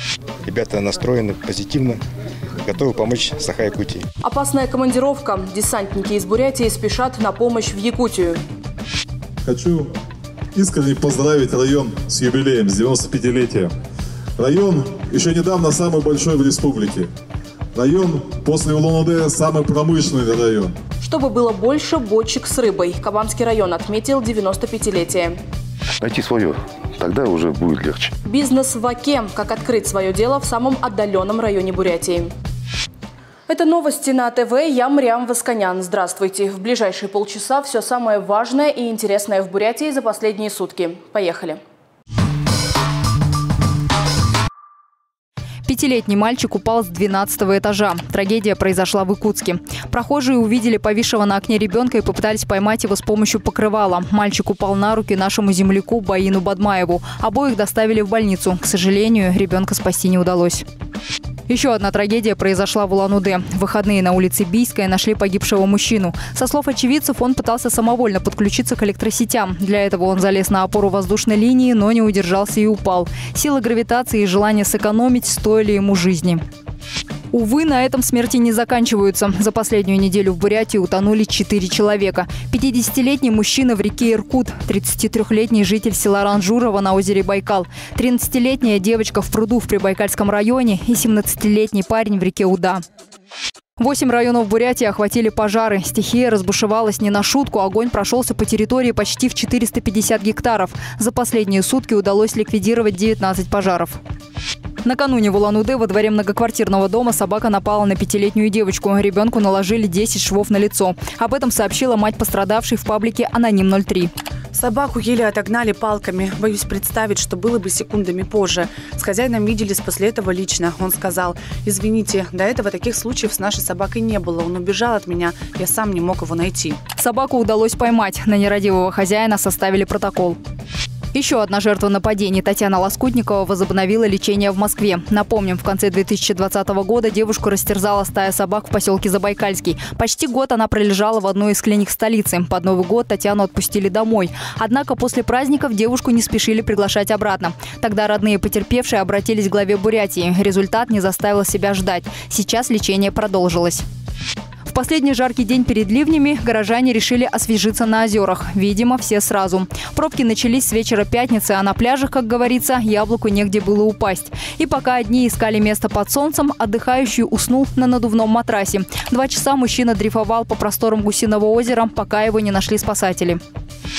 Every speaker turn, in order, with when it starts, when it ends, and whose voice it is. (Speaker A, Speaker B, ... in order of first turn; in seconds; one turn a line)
Speaker A: 0.4-2.0
Speaker A: 2.6-4.0
Speaker B: 4.2-8.4
Speaker C: 9.4-9.9
Speaker C: 10.6-13.7
Speaker C: 14.4-17.1
Speaker C: 17.8-20.7
Speaker B: 21.0-25.4
Speaker D: 26.0-28.1
Speaker B: 28.3-32.3
Speaker B: 33.5-41.6
Speaker E: 45.7-60.6
Speaker E: 61.5-76.4
Speaker E: 77.3-92.8
Speaker E: 93.8-104.0
Speaker E: 104.8-114.1
Speaker F: 114.5-126.8
Speaker E: 127.0-130.4
Speaker E: 131.1-153.8
Speaker E: 154.7-173.4